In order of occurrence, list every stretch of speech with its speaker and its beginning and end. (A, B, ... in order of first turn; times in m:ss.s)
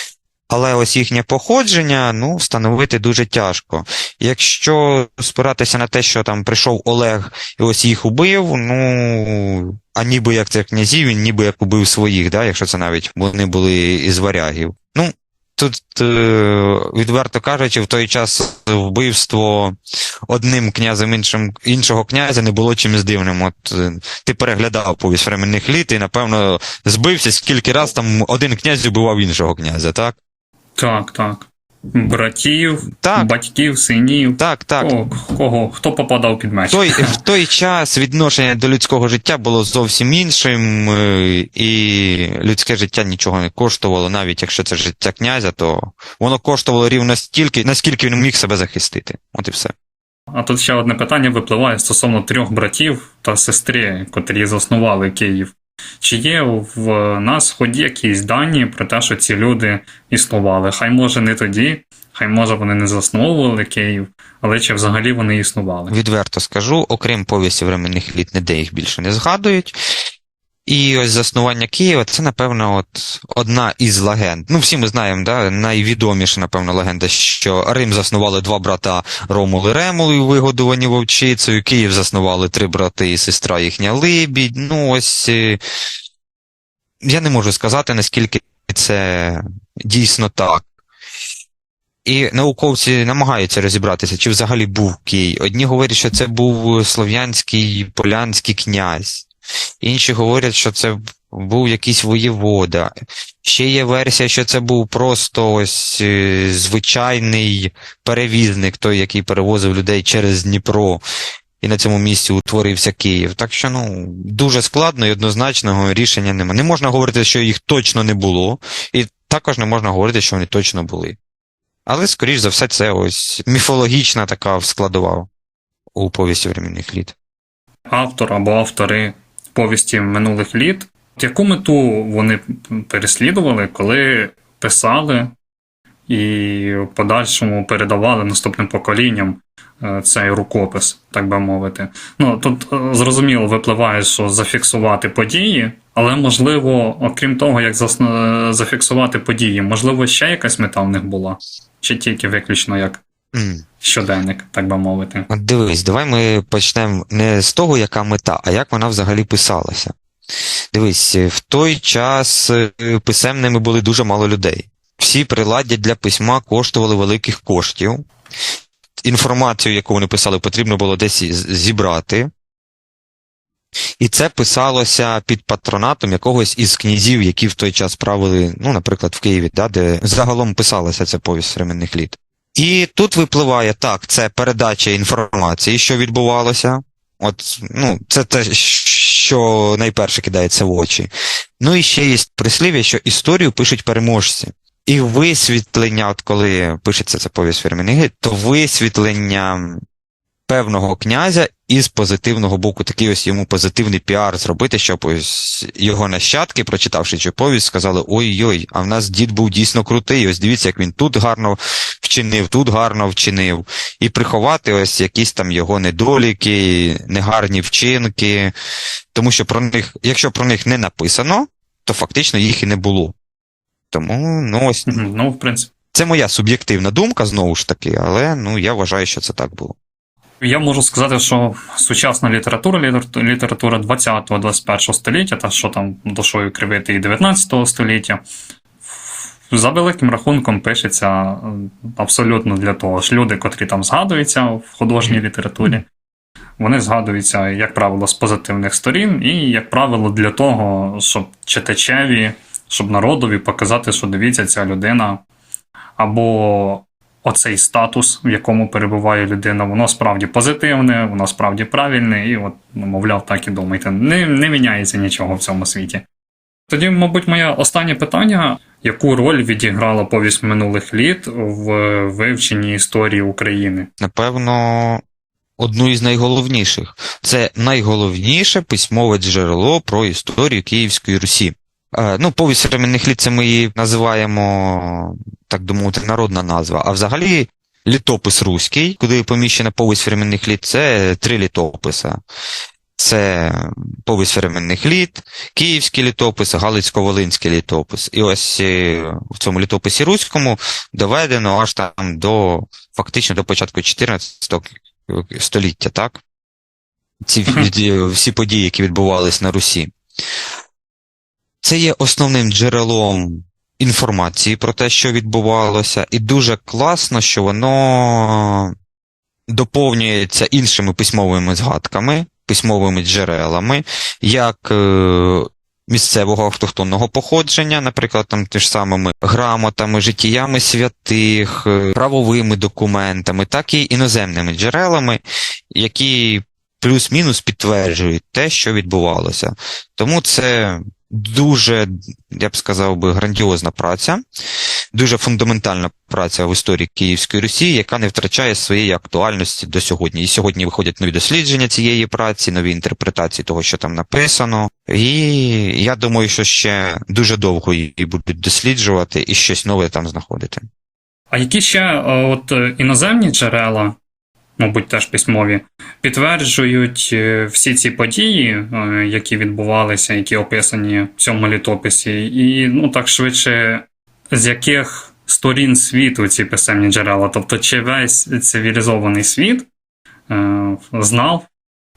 0:00.5-0:19.8 A
0:20.3-0:30.2 A
0:30.8-0:37.2 B
0:32.9-0:33.3 A
0:34.4-0:34.9 A
0:36.7-0:49.7 A
0:50.3-1:05.9 B
1:05.9-1:09.7 A
1:10.6-1:25.6 A
1:27.0-1:30.6 A
1:32.0-1:39.3 A
1:39.8-1:42.9 A
1:43.4-1:51.0 A
1:51.6-2:01.2 A
2:01.8-2:05.3 A
2:05.9-2:07.1 A
2:07.9-2:15.3 B
2:16.1-2:33.0 B
2:33.3-2:33.6 A
2:33.8-2:35.3 B
2:35.3-2:39.9 A
2:40.7-2:48.1 A
2:49.0-2:52.3 A
2:54.0-3:11.1 A
3:11.6-3:19.8 A
3:20.5-3:38.5 A
3:39.1-3:43.1 A
3:43.9-3:45.0 A
3:44.9-3:45.7 B
3:45.9-3:49.8 A
3:50.4-3:58.2 B
3:59.5-4:05.8 B
4:06.6-4:15.2 B
4:16.0-4:26.0 B
4:26.7-4:33.9 B
4:34.0-4:35.0 A
4:35.6-4:52.2 A
4:53.0-5:06.2 A
5:07.2-5:09.9 A
5:11.6-5:18.7 A
5:19.5-5:44.2 A
5:44.9-6:00.7 A
6:01.3-6:04.0 B
6:04.6-6:19.7 B
6:20.3-6:21.5 B